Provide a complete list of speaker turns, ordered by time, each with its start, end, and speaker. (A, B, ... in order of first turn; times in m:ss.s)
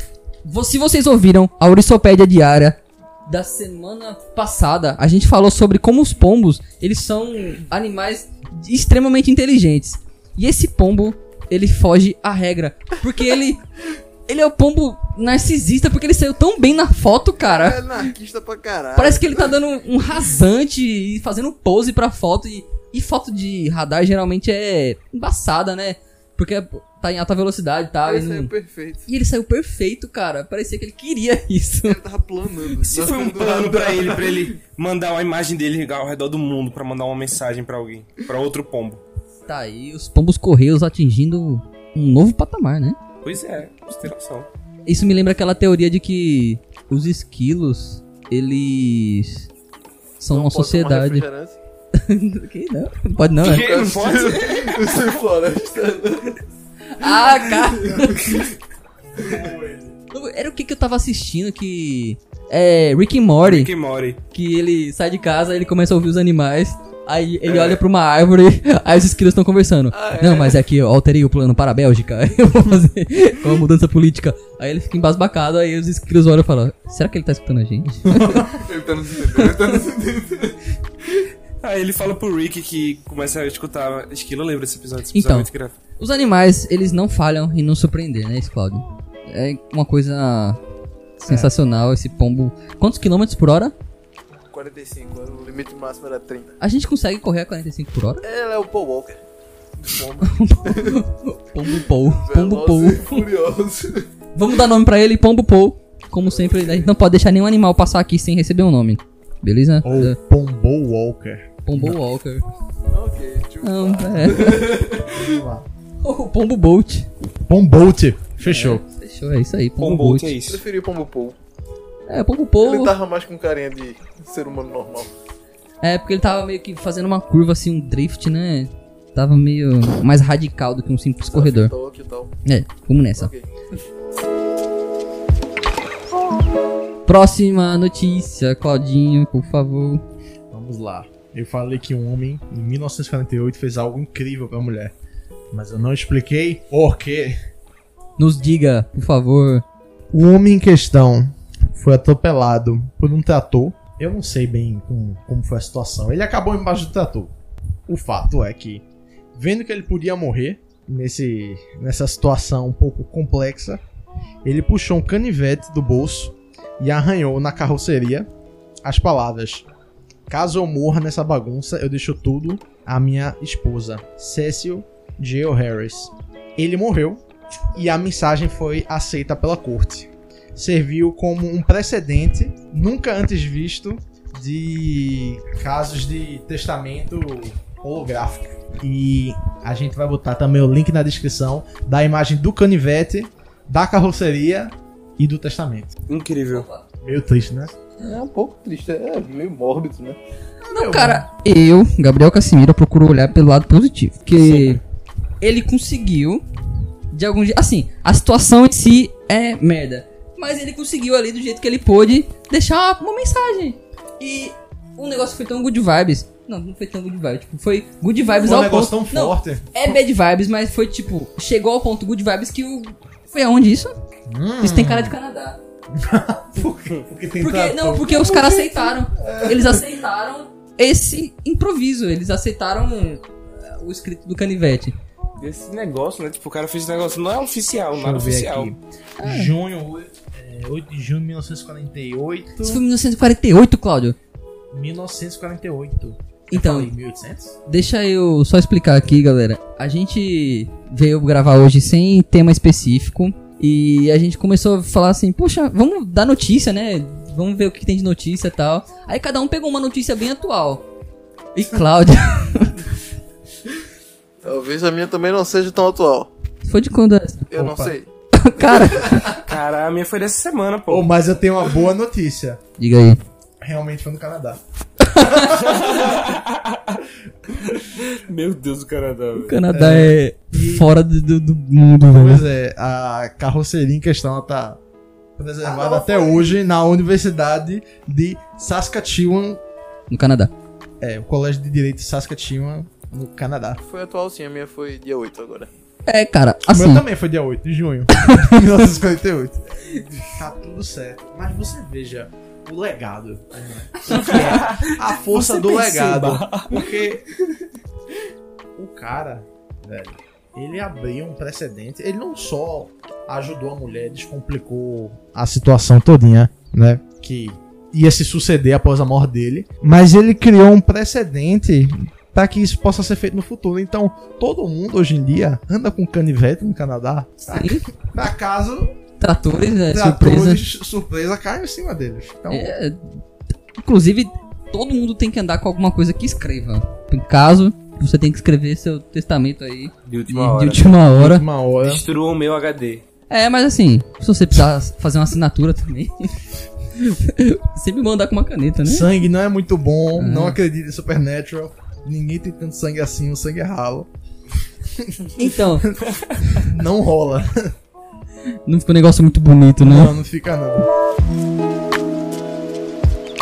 0:00.4-0:13.6 A
0:14.3-0:17.8 A
0:17.4-0:19.5 B
0:19.0-0:28.5 A
0:28.0-0:29.1 B
0:29.1-0:32.0 A
0:31.8-0:34.5 B
0:32.8-0:39.0 C
0:39.5-0:43.0 A
0:43.2-0:44.5 C
0:44.9-0:49.5 A
0:50.2-0:51.2 A
0:50.3-0:51.6 B
0:51.9-0:53.7 A
0:53.4-0:54.9 C
0:53.4-0:56.4 B
0:56.9-0:58.4 A
0:57.0-0:58.5 B
0:59.2-0:59.9 D
1:00.1-1:03.7 A
1:03.4-1:04.2 C
1:04.3-1:18.5 A
1:07.5-1:07.8 C
1:09.9-1:10.6 B
1:18.0-1:18.5 D
1:18.4-1:20.6 B
1:21.6-1:25.8 C
1:25.1-1:30.6 A
1:31.2-1:33.7 A
1:34.5-1:36.6 B
1:36.6-1:38.2 A
1:38.2-1:39.2 B
1:39.8-1:41.0 B
1:40.2-1:43.2 A
1:41.6-1:44.1 B
1:44.3-1:50.2 A
1:46.2-1:47.0 B
1:49.8-1:52.0 D
1:51.6-1:52.4 A
1:52.9-1:55.4 B
1:53.6-1:54.8 A
1:55.0-1:55.6 D
1:56.0-1:57.1 A
1:57.4-1:58.8 D
1:58.4-2:00.3 A
1:59.8-2:00.6 C
2:00.5-2:01.4 B
2:02.1-2:02.9 A
2:02.6-2:05.1 B
2:05.8-2:11.7 A
2:11.3-2:12.3 B
2:12.4-2:13.3 A
2:13.2-2:13.4 B
2:17.1-2:20.0 A
2:20.5-2:24.9 D
2:25.5-2:27.4 D
2:28.2-2:29.6 A
2:30.1-2:37.3 D
2:37.9-2:43.8 D
2:44.4-2:48.3 D
2:48.8-2:49.7 D
2:50.3-2:57.2 D
2:57.7-3:15.9 D
3:16.1-3:16.6 C
3:16.5-3:16.8 A
3:17.0-3:17.7 D
3:18.0-3:20.2 B
3:20.6-3:21.2 D
3:20.7-3:24.8 A
3:24.4-3:24.8 D
3:25.4-3:26.4 A
3:27.1-3:43.9 A
3:38.4-3:40.0 D
3:44.3-3:45.2 D
3:44.6-3:45.6 A
3:45.9-3:49.8 D
3:47.4-3:54.9 A
3:55.4-3:58.7 C
3:57.9-4:02.8 D
3:59.2-3:59.5 A
4:02.6-4:04.2 A
4:04.7-4:07.6 D
4:06.5-4:06.9 A
4:07.7-4:20.8 A
4:21.5-4:22.9 A
4:24.4-4:26.3 B
4:26.6-4:27.5 A
4:27.5-4:28.1 B
4:27.5-4:27.9 D
4:28.3-4:29.3 A
4:28.6-4:29.4 B
4:29.4-4:31.1 C
4:30.9-4:32.6 D
4:32.8-4:33.2 A
4:33.6-4:34.6 D
4:35.0-4:35.5 A
4:35.1-4:36.1 D
4:35.5-4:37.0 C
4:37.6-4:39.6 C
4:39.4-4:42.4 A
4:39.7-4:40.9 D
4:42.1-4:44.8 D
4:45.4-4:49.6 D
4:45.6-4:46.5 B
4:50.1-4:50.5 A
4:51.0-4:53.8 D
4:53.8-4:55.7 B
4:56.0-4:57.0 A
4:56.7-5:07.2 D
4:58.2-4:58.5 A
5:04.1-5:06.8 C
5:08.8-5:28.9 D
5:27.5-5:27.8 A
5:29.2-5:30.6 A
5:29.9-5:32.8 D
5:32.5-5:33.0 A
5:33.8-5:41.4 A
5:40.0-5:40.9 C
5:41.1-5:42.0 D
5:41.8-5:43.0 C
5:43.3-5:46.3 A
5:46.9-5:49.1 A
5:48.8-5:54.1 D
5:50.2-5:50.6 A
5:54.9-5:56.0 D
5:55.4-5:55.9 A
5:56.6-5:57.7 D
5:58.6-6:00.1 A
5:59.8-6:00.9 D